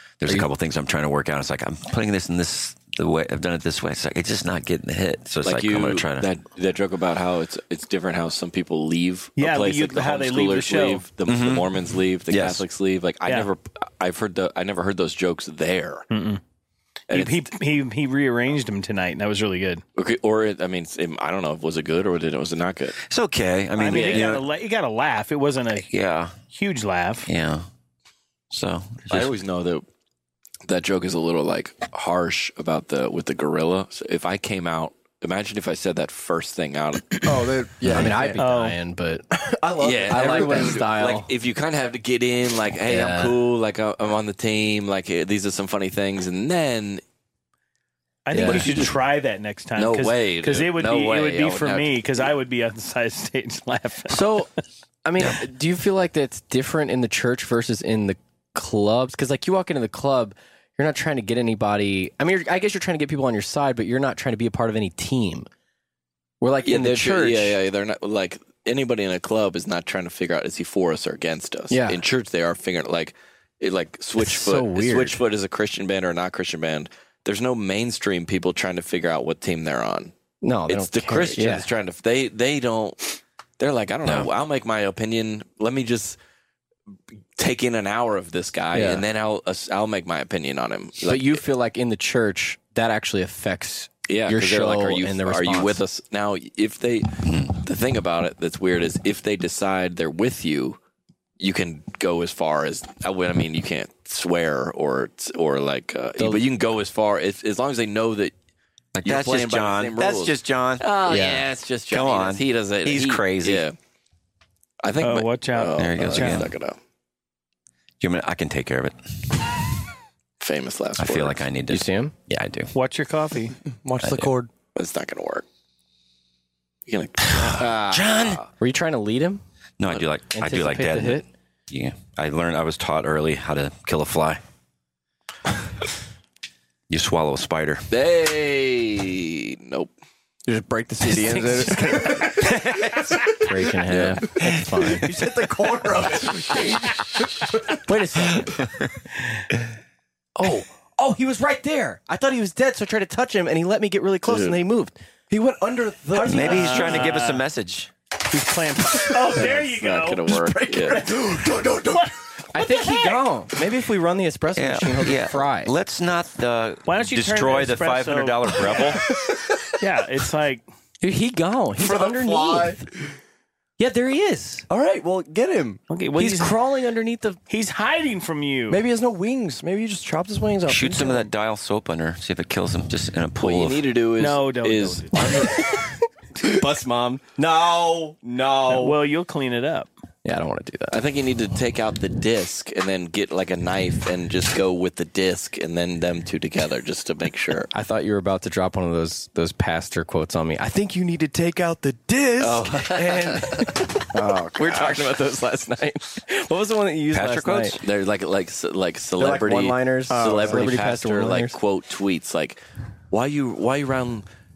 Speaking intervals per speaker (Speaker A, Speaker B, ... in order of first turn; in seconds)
Speaker A: 0.2-6.3, 11.2-12.6, 23.1-24.4, 25.9-26.4, 27.2-27.6, 28.5-29.3, 84.0-84.3, 97.2-97.5, 108.9-110.9, 111.9-113.7, 115.7-116.5, 118.0-119.5, 121.0-122.7, 124.0-124.3, 127.4-128.4, 129.8-134.4, 136.9-137.9, 142.4-143.2, 156.2-157.9, 164.5-169.0, 180.7-183.8, 207.1-207.8
Speaker B: 5.4-16.1, 17.1-17.5, 19.9-23.0, 23.8-24.4, 29.1-29.8, 30.6-37.4, 39.8-47.0, 48.4-49.0, 49.8-52.3, 66.6-80.1, 80.7-86.2, 87.4-91.4, 94.1-100.8, 101.4-108.3, 109.0-113.8, 114.8-116.8, 120.4-121.5, 124.7-125.4, 126.9-127.7, 137.9-139.9, 143.9-144.2, 154.3-154.6, 159.3-161.1, 183.4-185.7, 190.9-197.7, 202.4-203.4, 207.8-212.6, 213.1-214.2
Speaker C: 9.4-11.1, 16.1-16.4, 17.1-19.8, 23.8-25.9, 26.4-27.3, 38.4-38.8, 48.2-54.4, 115.0-116.5, 122.7-123.5, 156.3-157.4, 158.3-161.3, 162.7-163.2, 166.9-169.0, 169.8-170.6, 175.9-176.6, 177.5-178.8, 184.2-185.4, 188.7-189.9
Speaker D: 37.2-38.4, 39.5-40.8, 123.7-124.5, 140.4-143.5, 144.9-147.8, 155.3-157.1, 160.3-162.1, 171.8-172.9, 174.7-175.8, 178.7-181.3, 187.4-188.7, 200.9-205.0, 210.1-210.7
Speaker E: 37.8-39.4, 40.1-41.3, 42.9-43.4, 54.1-54.5, 55.0-65.5, 66.4-67.6, 71.7-72.0, 74.2-75.2, 80.4-81.7, 88.7-89.0, 91.0-95.8, 106.2-106.5, 111.0-111.5, 121.7-122.1, 127.6-129.4, 130.3-131.3, 141.0-142.3, 143.4-145.1, 147.9-148.5, 150.3-154.9, 162.5-165.7, 171.0-172.8, 173.8-174.6, 176.2-177.4, 186.4-187.4, 188.2-188.9, 190.2-191.0, 197.7-201.0, 202.4-207.8, 209.2-211.6